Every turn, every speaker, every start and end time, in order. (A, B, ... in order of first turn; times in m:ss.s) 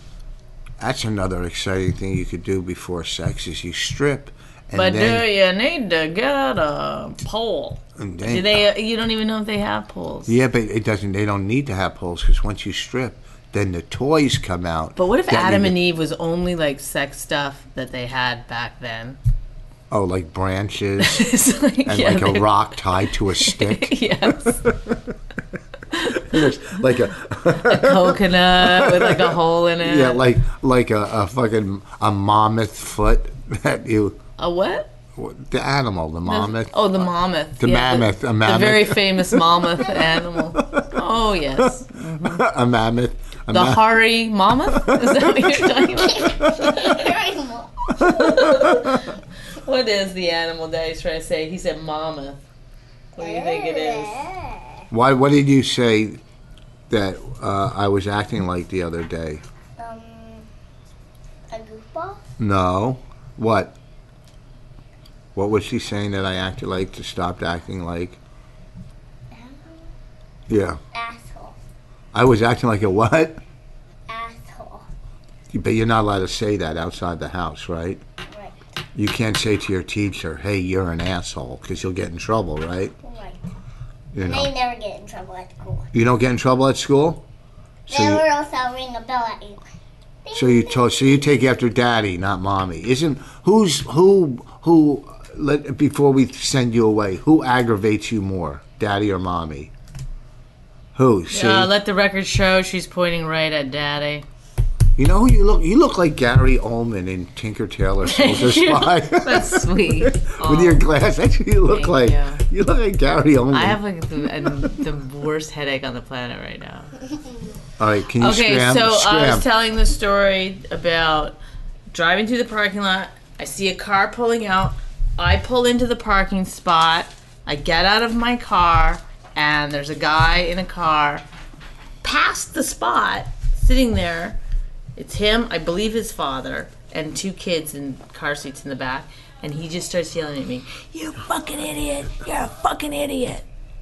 0:00.8-0:05.3 A
0:04.7-0:10.4 B
0:08.0-0:08.6 A
0:10.3-0:15.8 A
0:15.0-0:19.2 B
0:19.9-0:21.2 A
0:21.0-0:24.7 B
0:21.8-0:25.0 A
0:25.9-0:26.8 B
0:26.1-0:34.2 A
0:27.5-0:30.2 B
0:34.4-0:34.9 B
0:35.2-0:39.7 A
0:36.2-0:42.4 B
0:40.5-0:40.9 A
0:42.1-0:44.0 A
0:43.5-0:47.0 B
0:44.7-0:45.9 A
0:46.0-0:48.3 C
0:46.4-0:46.8 A
0:48.0-0:52.4 B
0:48.0-0:48.9 A
0:53.2-0:54.2 B
0:53.2-0:54.9 C
0:54.9-0:56.2 A
0:56.9-0:59.4 A
0:59.8-1:00.5 C
1:01.5-1:02.2 C
1:02.4-1:03.7 A
1:05.3-1:08.2 A
1:09.3-1:09.9 C
1:10.5-1:10.8 A
1:10.9-1:11.6 C
1:12.1-1:13.4 A
1:14.1-1:14.8 C
1:15.5-1:18.0 A
1:18.3-1:18.6 C
1:18.9-1:22.9 A
1:23.0-1:23.4 C
1:24.1-1:24.5 A
1:24.2-1:25.9 C
1:25.9-1:27.2 A
1:27.9-1:29.7 C
1:27.9-1:28.2 A
1:30.2-1:31.2 C
1:30.3-1:39.7 A
1:40.9-1:41.7 A
1:41.3-1:44.2 B
1:45.0-1:53.8 A
1:48.0-1:50.8 B
1:51.7-1:52.4 B
1:53.5-1:56.9 B
1:57.8-1:59.5 A
1:58.2-2:01.4 B
2:01.9-2:11.2 B
2:12.0-2:14.4 B
2:15.0-2:23.4 B